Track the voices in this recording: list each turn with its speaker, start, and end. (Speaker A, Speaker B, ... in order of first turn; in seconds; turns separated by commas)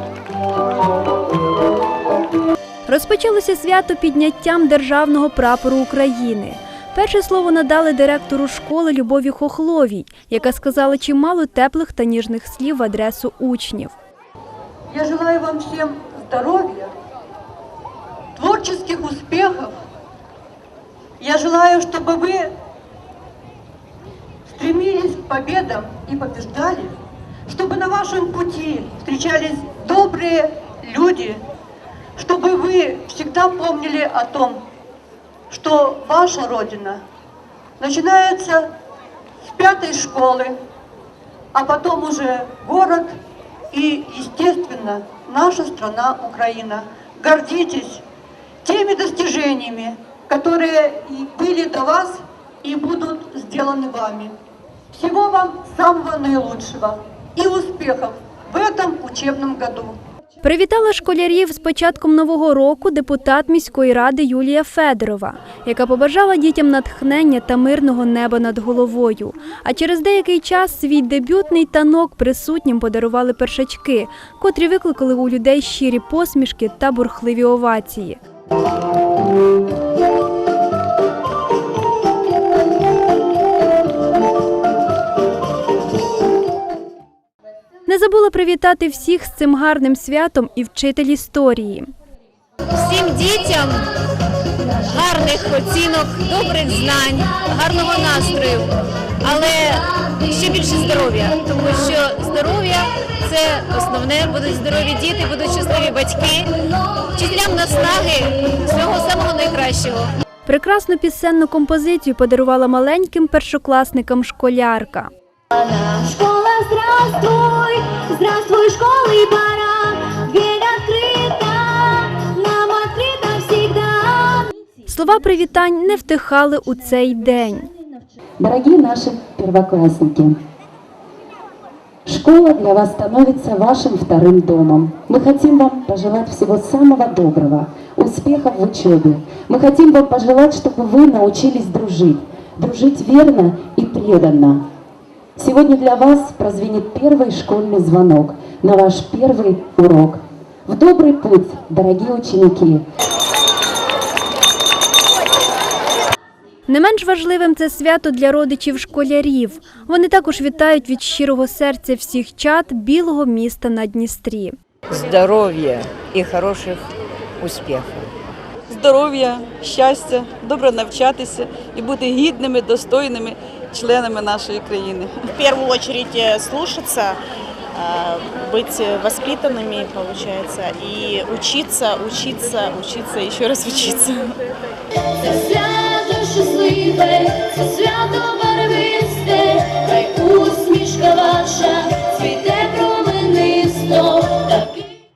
Speaker A: 2.9-14.0, Speaker B: 14.9-16.9, Speaker B: 18.4-19.7, Speaker B: 21.2-22.5, Speaker B: 24.5-26.9, Speaker B: 27.5-31.4, Speaker B: 32.2-34.6, Speaker B: 35.5-37.0, Speaker B: 37.8-38.7, Speaker B: 39.4-40.6, Speaker B: 41.5-43.1, Speaker B: 43.7-48.0, Speaker B: 48.6-54.3, Speaker B: 54.9-60.0, Speaker A: 60.4-78.2, Speaker A: 87.9-91.9, Speaker C: 92.8-93.9, Speaker C: 94.8-106.5, Speaker C: 107.1-110.1, Speaker A: 110.5-115.1, Speaker D: 115.6-124.5, Speaker A: 124.9-127.7, Speaker E: 128.4-130.4, Speaker E: 132.1-144.7, Speaker E: 145.4-152.8, Speaker A: 156.7-164.6, Speaker F: 164.9-168.1, Speaker G: 168.7-175.3, Speaker H: 175.3-177.2, Speaker H: 177.7-184.4, Speaker D: 185.2-194.9